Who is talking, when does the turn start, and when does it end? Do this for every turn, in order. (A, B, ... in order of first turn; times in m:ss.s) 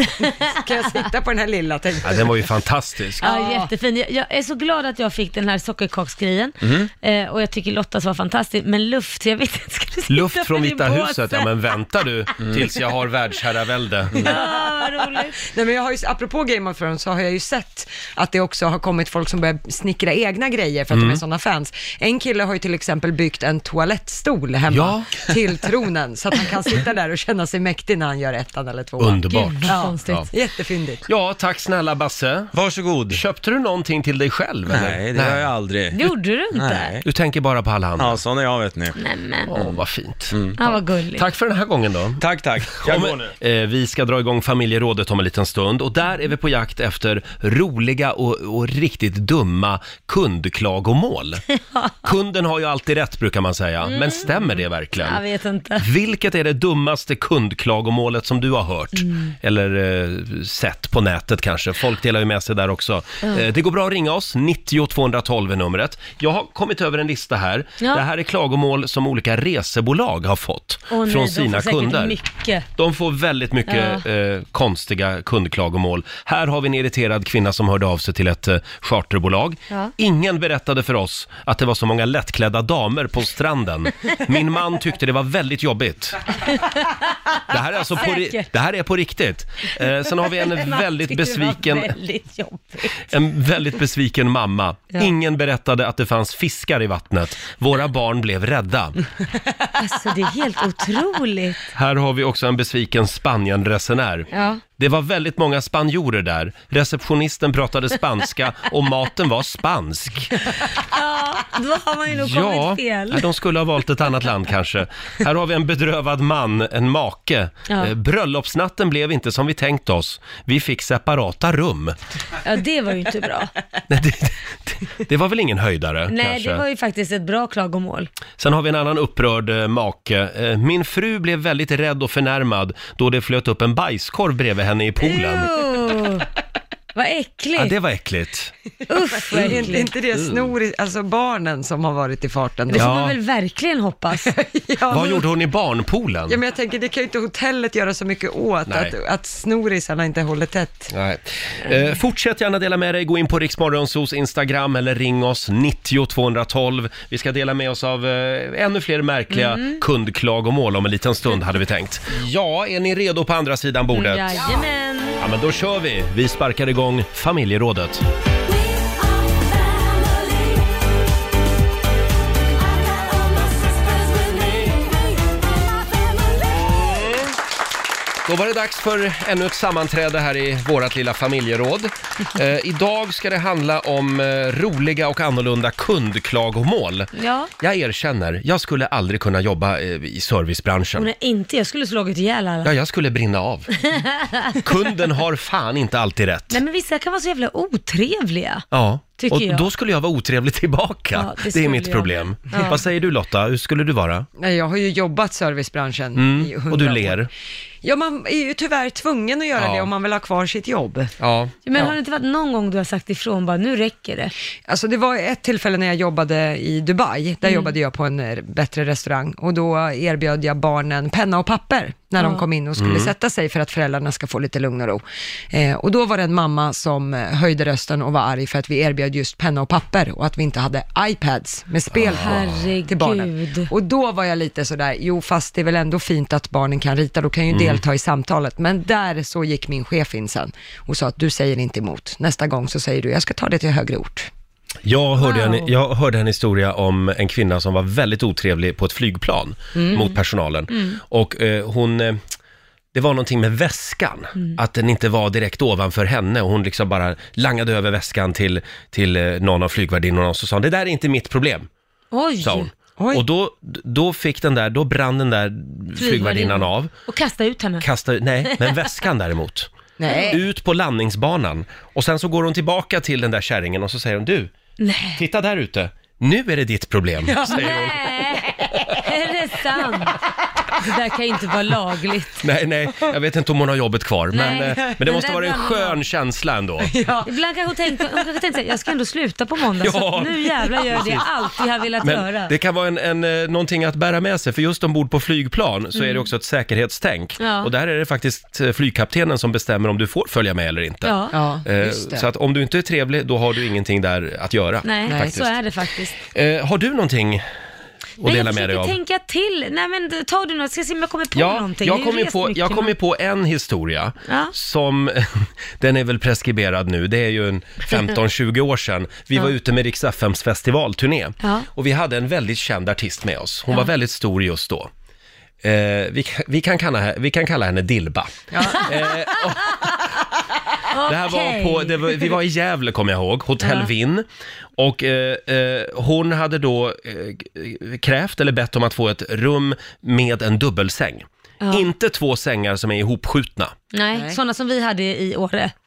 0:00.2-0:00.9 A
0:00.5-0:02.5 B
0:02.0-0:03.2 C
0:03.2-0:03.7 B
0:03.2-0:11.6 A
0:06.6-0:06.9 D
0:10.1-0:14.3 C
0:14.2-0:15.4 A
0:14.2-0:14.7 B
0:15.4-0:31.0 B
0:20.9-0:21.2 C
0:24.7-0:25.1 C
0:29.0-0:30.3 C
0:29.3-0:30.3 A
0:31.1-0:32.5 C
0:32.5-0:33.2 D
0:33.1-0:35.5 C
0:34.7-0:37.0 D
0:35.9-0:36.9 A
0:37.0-0:38.2 C
0:38.0-0:39.0 D
0:39.0-0:39.5 A
0:39.5-0:40.4 C
0:40.3-0:40.6 D
0:40.6-0:41.2 A
0:41.1-0:51.4 C
0:42.2-0:43.3 D
0:52.0-0:55.2 C
0:53.8-0:55.8 A
0:55.8-1:12.2 C
0:59.0-0:59.3 A
1:10.9-1:12.6 A
1:12.8-1:26.2 C
1:13.7-1:14.0 A
1:26.5-1:27.4 A
1:27.5-1:31.9 C
1:28.0-1:28.5 A
1:29.8-1:33.1 A
1:33.1-1:39.0 C
1:39.8-1:41.7 A
1:41.7-1:50.4 C
1:44.3-1:44.6 A
1:50.8-1:53.3 A
1:52.1-2:02.0 C
2:02.4-2:03.5 A
2:03.9-2:06.6 C
2:06.1-2:08.1 A
2:08.4-2:15.5 C
2:15.0-2:16.3 A
2:16.9-2:17.8 A
2:17.6-2:18.5 C
2:18.9-2:19.9 A
2:19.2-2:22.9 B
2:19.3-2:20.5 C
2:22.7-2:24.3 A
2:22.7-2:23.2 C
2:24.2-2:25.2 B
2:24.9-2:26.4 C
2:26.3-2:30.9 B
2:28.7-2:28.9 C
2:30.9-2:44.5 C
2:39.3-2:39.8 A
2:43.9-2:45.2 A
2:45.2-2:48.0 C
2:56.6-2:57.3 C
2:58.2-3:11.1 C
3:07.2-3:07.5 A
3:11.0-3:12.7 A
3:12.6-3:13.8 C
3:13.8-3:14.6 A
3:14.6-3:16.6 C
3:16.5-3:18.6 A
3:18.7-3:24.3 C
3:19.2-3:19.6 A
3:21.1-3:22.8 A
3:24.4-3:27.2 B
3:26.1-3:27.3 C
3:27.8-3:31.1 B
3:29.6-3:29.9 C
3:31.2-3:31.6 C
3:31.6-3:34.3 A
3:34.7-4:04.3 B
3:37.4-3:37.8 A
3:42.2-3:42.5 A
3:42.8-3:43.1 C
3:51.9-3:52.7 C
3:52.1-3:53.7 A
3:57.5-3:57.8 C
4:04.8-4:12.2 C
4:05.2-4:05.7 A
4:09.7-4:10.0 B
4:10.7-4:11.0 A
4:12.9-4:21.7 C
4:22.1-4:22.7 A
4:22.4-4:26.9 C
4:23.0-4:23.2 B
4:26.0-4:27.8 A
4:27.8-4:29.7 C
4:28.4-4:28.9 A
4:30.0-4:30.4 B
4:30.1-4:30.3 A
4:30.2-4:34.5 C
4:34.8-4:35.2 A
4:35.2-4:38.0 C
4:37.3-4:37.7 B
4:37.5-4:40.2 A
4:40.8-4:42.4 A
4:42.4-4:46.9 C
4:44.3-4:46.0 A
4:44.6-4:44.9 B
4:46.8-4:47.3 B
4:47.2-4:52.5 A
4:48.0-4:48.2 B
4:49.8-4:51.2 C
4:52.0-5:05.5 C
4:56.0-4:56.2 A
4:57.4-4:57.7 A
5:01.0-5:01.4 A
5:01.3-5:02.3 B
5:04.8-5:06.2 A
5:05.1-5:05.4 B
5:06.3-5:07.4 C
5:08.2-5:09.0 C
5:08.2-5:12.9 A
5:11.3-5:24.9 C
5:14.3-5:14.5 A
5:21.4-5:21.7 A
5:25.6-5:29.8 C
5:28.5-5:28.8 B
5:30.9-5:32.3 A
5:31.0-5:34.2 C
5:33.6-5:33.9 A
5:34.8-5:43.7 C
5:41.6-5:41.9 A
5:43.9-5:45.7 A
5:44.1-5:44.4 B